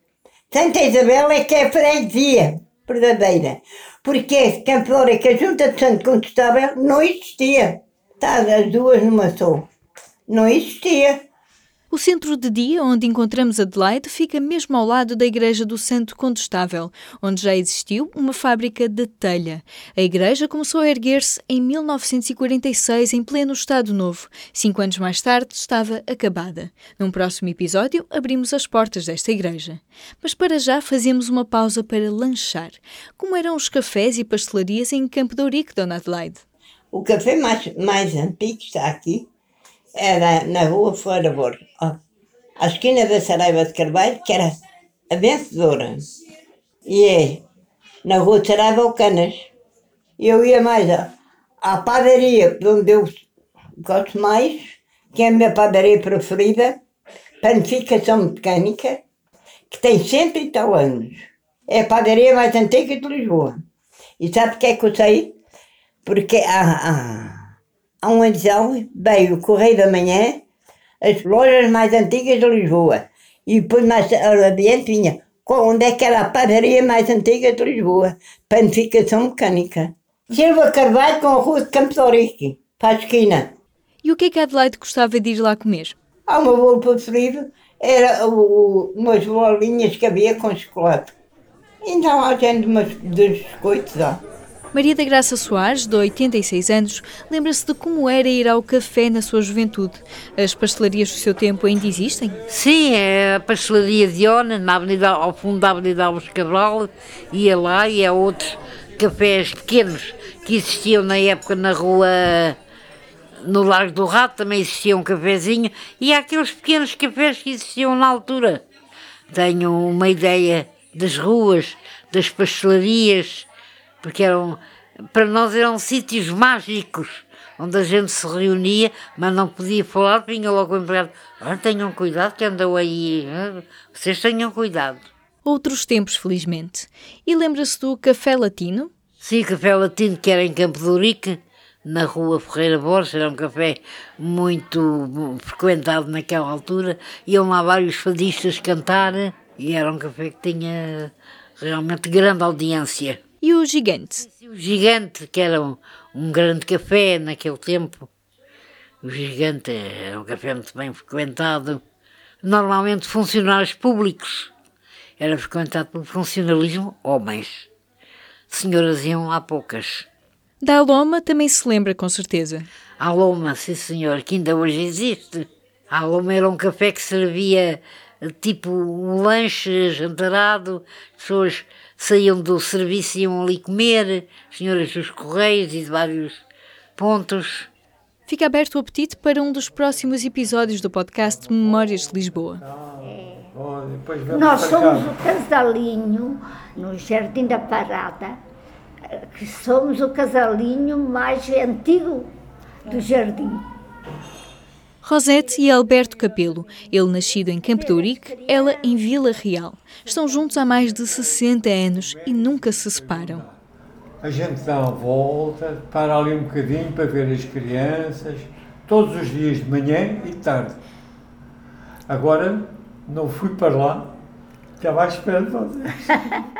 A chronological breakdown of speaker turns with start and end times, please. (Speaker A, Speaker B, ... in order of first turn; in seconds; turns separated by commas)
Speaker A: 0.5-9.7, Speaker A: 10.3-11.2, Speaker B: 11.9-36.4, Speaker A: 36.9-39.2, Speaker A: 40.0-41.9, Speaker A: 42.6-44.5, Speaker A: 45.2-45.9, Speaker A: 50.2-50.6, Speaker A: 52.0-53.1, Speaker A: 55.2-56.8, Speaker A: 57.6-59.0, Speaker A: 60.5-61.1, Speaker A: 61.9-63.5, Speaker A: 64.6-65.3, Speaker A: 66.3-67.4, Speaker A: 68.0-70.4, Speaker A: 71.1-83.4, Speaker B: 84.0-86.0, Speaker A: 86.3-91.1, Speaker A: 91.8-94.2, Speaker B: 94.7-102.3, Speaker C: 102.5-112.6, Speaker C: 113.4-118.6, Speaker C: 119.3-123.5, Speaker C: 124.0-124.6, Speaker C: 125.1-135.1, Speaker B: 135.4-138.9, Speaker C: 139.2-153.2, Speaker B: 153.4-154.3, Speaker C: 154.3-158.1, Speaker C: 159.0-161.8, Speaker C: 162.4-164.5, Speaker C: 165.2-167.7, Speaker C: 168.5-170.1, Speaker B: 170.6-172.7, Speaker C: 173.0-186.4, Speaker C: 187.0-187.7, Speaker B: 188.3-192.6, Speaker D: 192.6-195.2, Speaker E: 194.3-198.4, Speaker E: 199.2-202.3, Speaker E: 202.9-203.6, Speaker B: 205.0-213.4, Speaker E: 207.7-209.0, Speaker D: 212.0-213.6, Speaker D: 214.2-220.8, Speaker D: 222.1-224.2, Speaker D: 224.8-226.2